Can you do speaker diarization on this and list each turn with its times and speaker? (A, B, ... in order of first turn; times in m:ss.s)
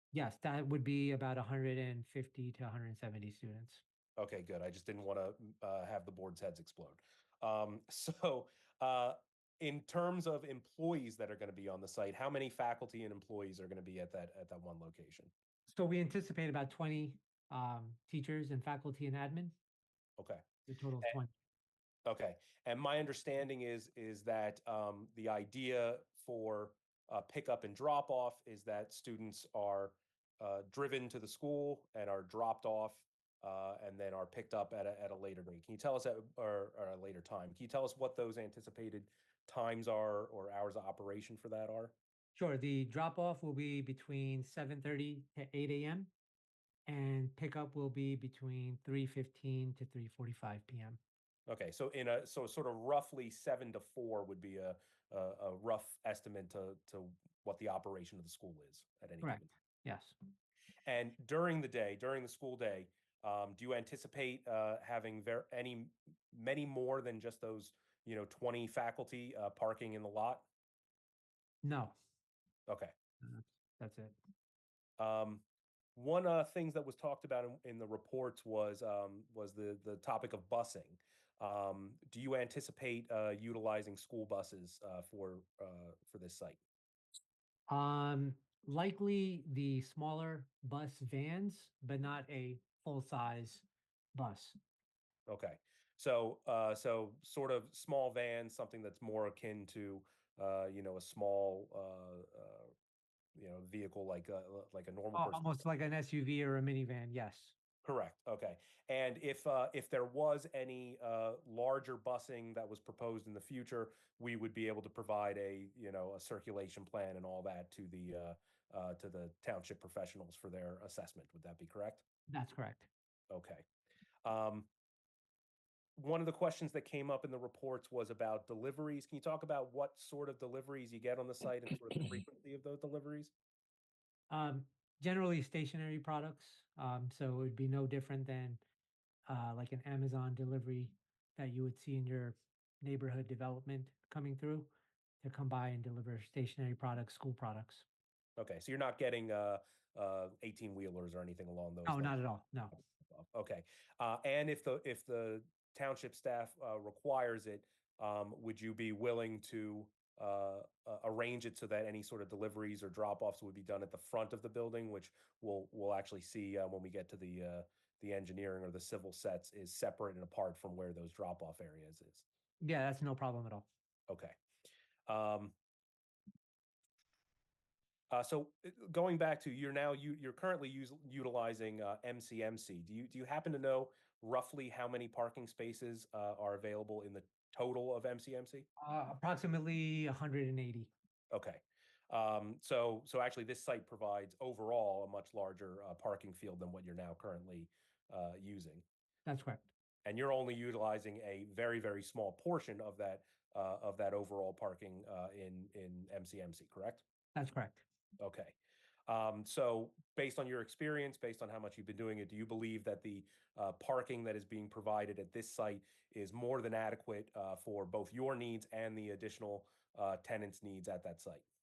0:00.1-0:03.8 A
0:04.2-0:15.3 B
0:15.7-0:19.5 A
0:20.2-0:20.4 B
0:20.7-0:21.3 A
0:22.1-0:41.9 B
0:42.4-0:46.1 A
0:46.9-0:51.0 A
0:51.5-0:59.4 B
0:59.2-1:00.2 A
1:00.9-1:10.4 B
1:11.6-1:11.9 A
1:12.7-1:12.9 B
1:13.2-1:14.2 A
1:15.0-1:15.4 B
1:16.0-1:26.6 B
1:27.7-1:34.6 A
1:35.3-1:42.7 B
1:43.4-1:45.6 B
1:45.1-1:47.5 A
1:47.8-2:02.0 B
2:02.3-2:02.9 A
2:03.3-2:03.6 B
2:04.2-2:04.7 B
2:06.0-2:13.3 B
2:14.3-2:18.6 A
2:19.3-2:27.8 A
2:28.4-2:32.2 B
2:31.9-2:32.8 A
2:33.1-2:52.2 B
2:52.6-2:53.7 A
2:54.1-2:54.4 B
2:55.1-2:55.6 B
2:58.1-3:08.7 B
3:08.8-3:10.9 A
3:11.3-3:18.8 B
3:19.3-3:19.6 A
3:20.0-3:27.0 B
3:27.4-3:27.8 A
3:28.2-3:28.6 B
3:29.1-3:41.4 B